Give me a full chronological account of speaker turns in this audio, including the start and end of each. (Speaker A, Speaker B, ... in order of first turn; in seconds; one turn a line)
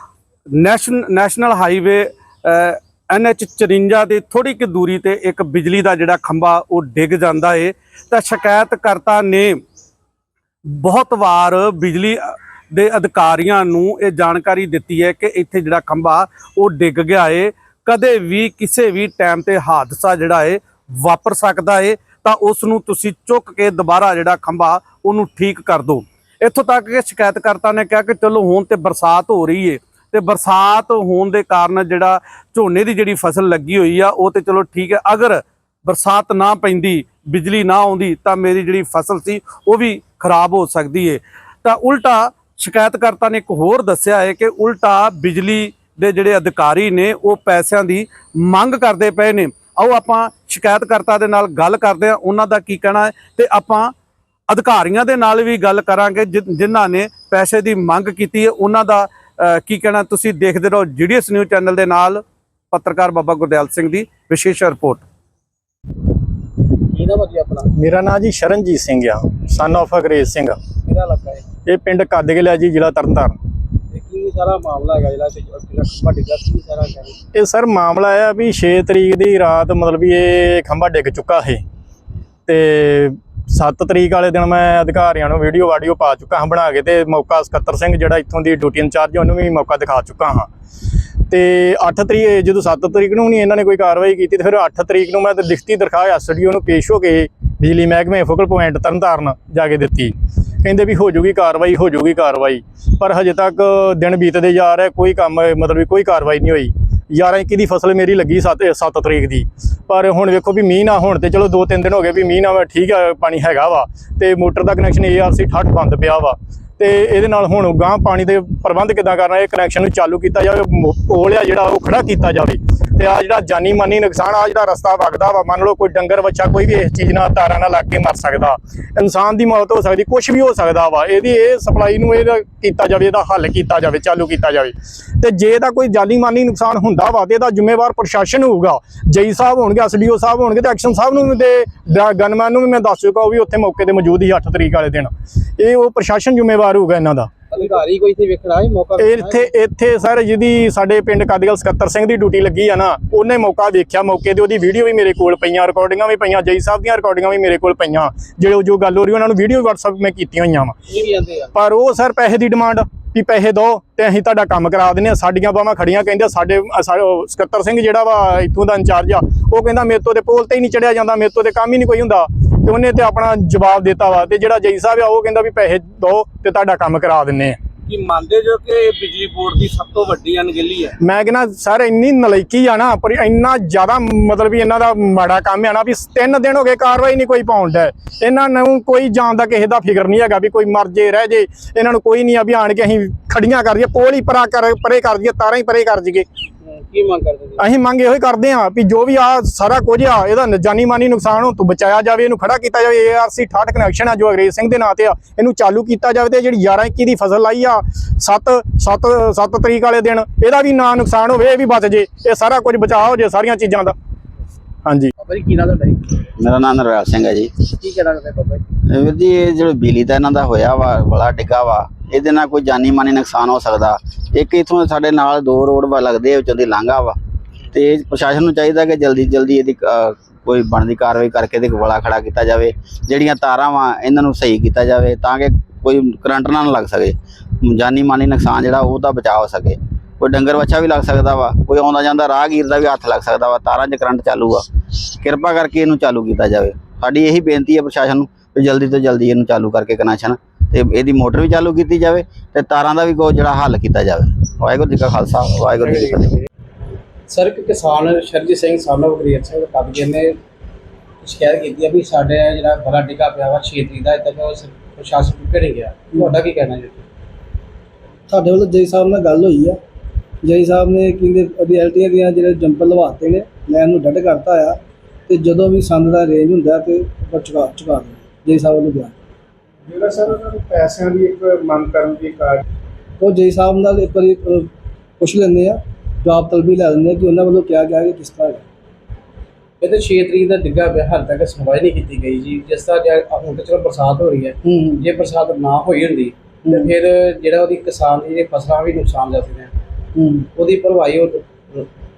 Speaker A: 0.6-9.6
Speaker A: 10.7-53.9
Speaker A: 54.5-65.0
Speaker B: 66.7-67.7
Speaker C: 67.8-70.6
Speaker B: 70.9-71.5
Speaker C: 71.7-73.4
Speaker B: 73.9-77.2
Speaker C: 77.3-81.6
Speaker C: 82.5-90.5
Speaker C: 91.3-147.3
Speaker B: 147.5-149.5
Speaker C: 149.0-160.8
Speaker B: 160.9-161.6
Speaker C: 161.6-177.6
Speaker A: 177.9-180.9
Speaker C: 181.0-196.3
Speaker B: 196.6-197.7
Speaker C: 197.6-213.9
Speaker C: 214.8-215.1
Speaker B: 215.2-216.3
Speaker D: 216.4-217.6
Speaker B: 217.7-218.6
Speaker D: 218.9-227.2
Speaker D: 227.7-256.4
Speaker B: 257.3-260.4
Speaker B: 261.2-267.1
Speaker E: 268.3-269.8
Speaker E: 270.4-279.1
Speaker F: 280.0-282.6
Speaker A: 280.0-280.6
Speaker A: 281.3-282.1
Speaker E: 283.2-288.6
Speaker B: 289.8-299.7
Speaker B: 300.6-301.9